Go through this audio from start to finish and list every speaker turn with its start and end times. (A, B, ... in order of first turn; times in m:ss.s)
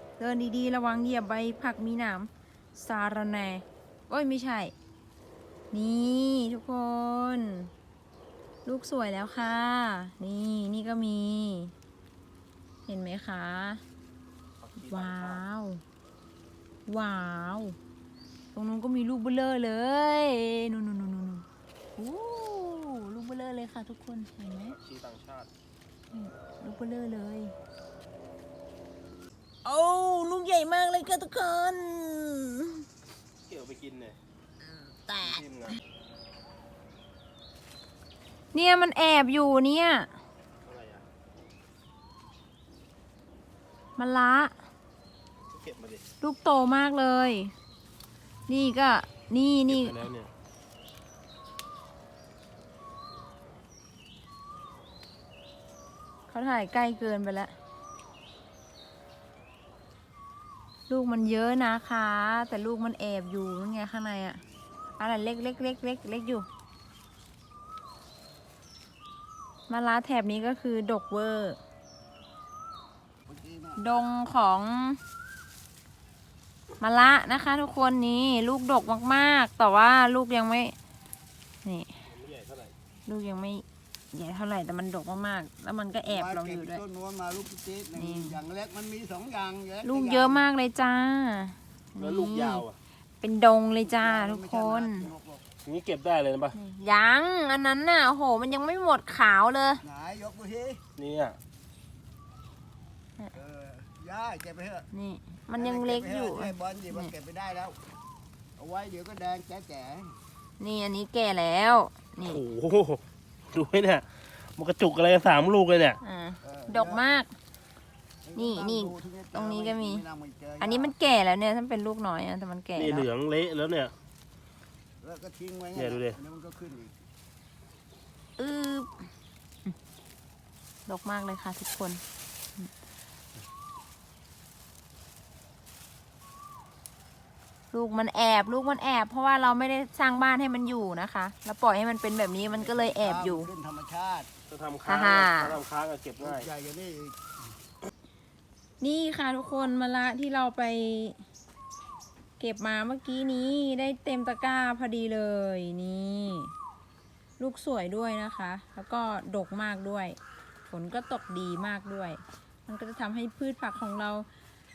0:00.2-0:04.7 A
0:05.7-0:07.7 A
0:08.6-0:11.8 A
0:12.9-0:13.8 A
0:14.6-0:15.4 B
0:14.8-0:15.8 A
0:16.9-0:17.8 A
0:18.5-0:24.8 A
0:24.7-0:25.5 B
0:26.1-0:27.6 A
0:29.6-0:32.9 A
0:33.5-0:34.2 B
0:34.6-0:35.4 A
0:35.2-0:35.8 B
0:38.5-0:40.1 A
0:40.6-0:41.1 B
0:44.0-0:44.6 A
0:45.5-0:46.0 B
0:46.2-0:47.5 A
0:48.5-0:50.1 A
0:49.7-0:50.3 B
0:56.3-0:57.6 A
1:00.9-1:04.4 A
1:05.0-1:06.5 A
1:09.7-1:11.6 A
1:13.3-1:13.8 C
1:13.8-1:15.0 A
1:16.8-1:20.8 A
1:21.6-1:22.0 A
1:22.1-1:22.7 B
1:23.1-1:26.8 A
1:26.1-1:30.4 C
1:28.0-1:28.4 A
1:29.8-1:32.6 A
1:32.0-1:32.8 B
1:33.2-1:35.1 A
1:34.0-1:35.4 C
1:35.6-1:36.6 B
1:36.5-1:39.8 A
1:39.8-1:40.8 C
1:41.0-1:41.4 B
1:43.4-1:44.9 C
1:44.9-1:47.1 A
1:45.6-1:47.8 C
1:48.6-1:50.2 C
1:50.6-1:52.4 A
1:52.2-1:56.0 B
1:56.0-1:57.4 A
1:56.5-1:57.0 C
1:58.2-2:00.9 C
1:58.3-2:00.0 A
2:00.6-2:03.1 A
2:02.8-2:03.9 B
2:05.0-2:06.9 C
2:05.8-2:06.2 B
2:08.4-2:09.0 A
2:10.9-2:12.0 A
2:17.7-2:23.5 A
2:22.5-2:24.3 C
2:24.5-2:26.5 B
2:24.8-2:25.6 A
2:26.2-2:27.2 C
2:28.8-2:31.2 A
2:32.4-2:36.5 A
2:37.4-2:44.3 A